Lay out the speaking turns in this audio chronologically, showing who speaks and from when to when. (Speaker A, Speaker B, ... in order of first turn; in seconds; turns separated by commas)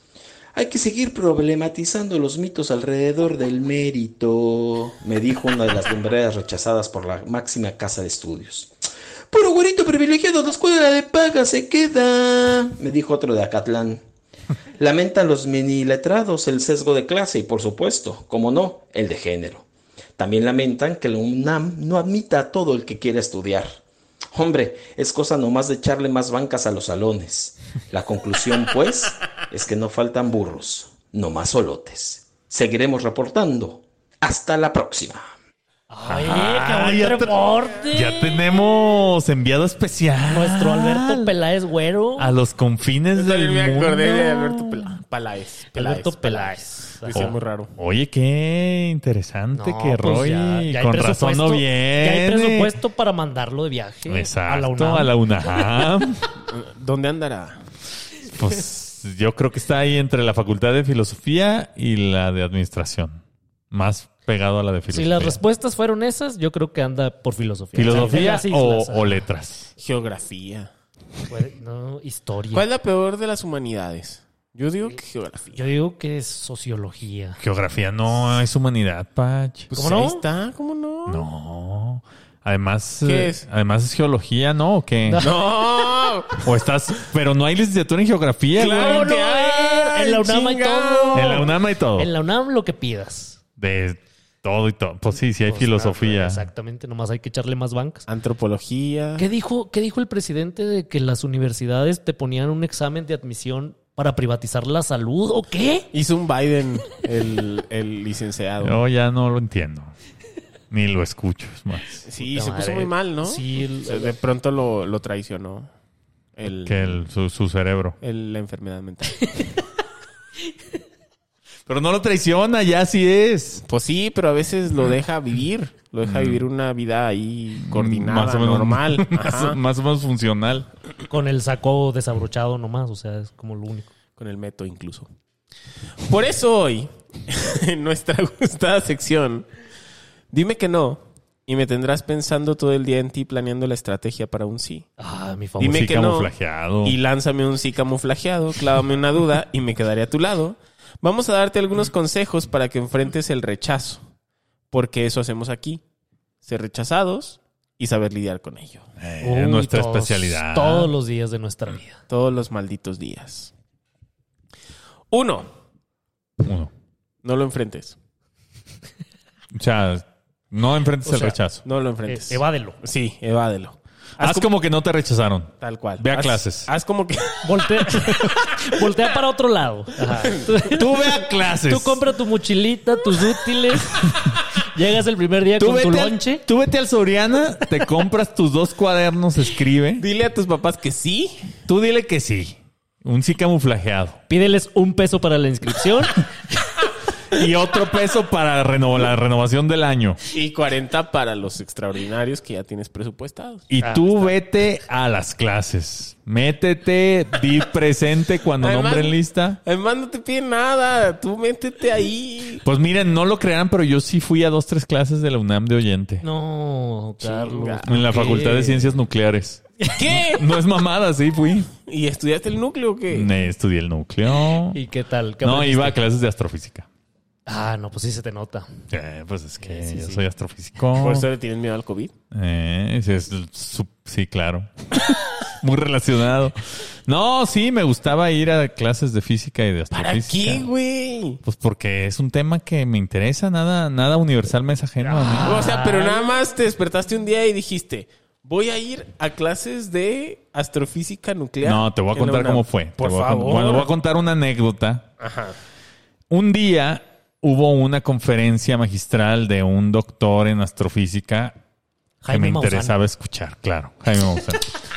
Speaker A: 0.5-8.7, Speaker A: 9.3-14.0, Speaker A: 14.8-19.6, Speaker A: 20.2-23.8, Speaker A: 24.3-35.2, Speaker B: 35.9-38.4, Speaker C: 36.0-41.3, Speaker B: 40.3-42.3, Speaker C: 42.2-45.0, Speaker D: 43.1-47.7, Speaker B: 45.7-47.3, Speaker C: 47.1-52.7, Speaker B: 49.5-55.9, Speaker C: 54.1-56.3, Speaker D: 56.4-57.6, Speaker C: 58.2-65.4, Speaker B: 64.9-69.2, Speaker D: 67.7-68.3, Speaker C: 67.7-69.7, Speaker D: 69.8-70.7, Speaker B: 71.3-72.7, Speaker D: 72.5-75.6, Speaker B: 75.5-77.4, Speaker C: 77.4-79.7, Speaker D: 79.7-81.2, Speaker B: 79.7-80.2, Speaker C: 81.1-85.2, Speaker D: 83.0-83.4, Speaker B: 85.1-85.4, Speaker D: 85.2-86.5, Speaker C: 86.4-89.1, Speaker D: 88.5-91.5, Speaker B: 88.7-93.4, Speaker C: 91.1-92.1, Speaker C: 93.6-96.4, Speaker B: 95.5-98.1, Speaker D: 98.1-99.3, Speaker B: 99.2-105.9, Speaker D: 105.9-108.8, Speaker C: 108.6-109.9, Speaker C: 110.7-112.0, Speaker D: 112.0-115.7, Speaker B: 112.2-114.1, Speaker D: 116.3-117.0, Speaker C: 116.6-118.0, Speaker D: 118.0-119.4, Speaker C: 121.7-123.6, Speaker D: 123.7-129.6, Speaker C: 126.0-126.4, Speaker C: 127.6-130.7, Speaker B: 131.1-133.9, Speaker D: 134.2-135.1, Speaker D: 136.0-139.5, Speaker D: 140.3-144.9, Speaker B: 145.0-145.9, Speaker C: 145.6-147.0, Speaker D: 145.6-154.1, Speaker D: 154.7-155.8, Speaker D: 156.4-158.9, Speaker C: 159.0-160.9, Speaker B: 159.2-162.0, Speaker D: 162.1-163.5, Speaker D: 165.1-165.5, Speaker C: 166.4-166.7, Speaker D: 167.2-167.9, Speaker C: 169.5-171.6, Speaker B: 171.0-171.4, Speaker D: 171.6-174.5, Speaker B: 172.1-172.8, Speaker C: 174.2-176.7, Speaker D: 175.6-178.1, Speaker B: 177.4-186.4, Speaker D: 180.1-180.5, Speaker C: 180.6-182.0, Speaker C: 185.6-190.0, Speaker D: 190.0-191.5, Speaker C: 191.7-194.2, Speaker B: 194.3-196.2, Speaker C: 197.3-200.2, Speaker D: 200.3-203.7, Speaker C: 203.7-209.6, Speaker B: 203.8-204.4, Speaker D: 208.6-212.6, Speaker C: 212.6-216.2, Speaker B: 216.2-218.9, Speaker D: 217.2-218.0, Speaker C: 217.9-221.7, Speaker D: 219.9-220.4, Speaker D: 221.9-223.3, Speaker C: 223.1-224.8, Speaker B: 224.7-226.0, Speaker C: 225.4-226.9, Speaker B: 227.5-228.7, Speaker C: 228.9-231.2, Speaker B: 229.6-230.2, Speaker D: 230.9-232.1, Speaker C: 232.3-240.7, Speaker D: 239.9-241.4, Speaker C: 241.4-245.7, Speaker B: 245.0-246.3, Speaker D: 245.4-253.9, Speaker C: 251.6-255.1, Speaker D: 255.2-255.6, Speaker C: 256.3-261.6, Speaker B: 262.2-262.9, Speaker C: 262.3-264.7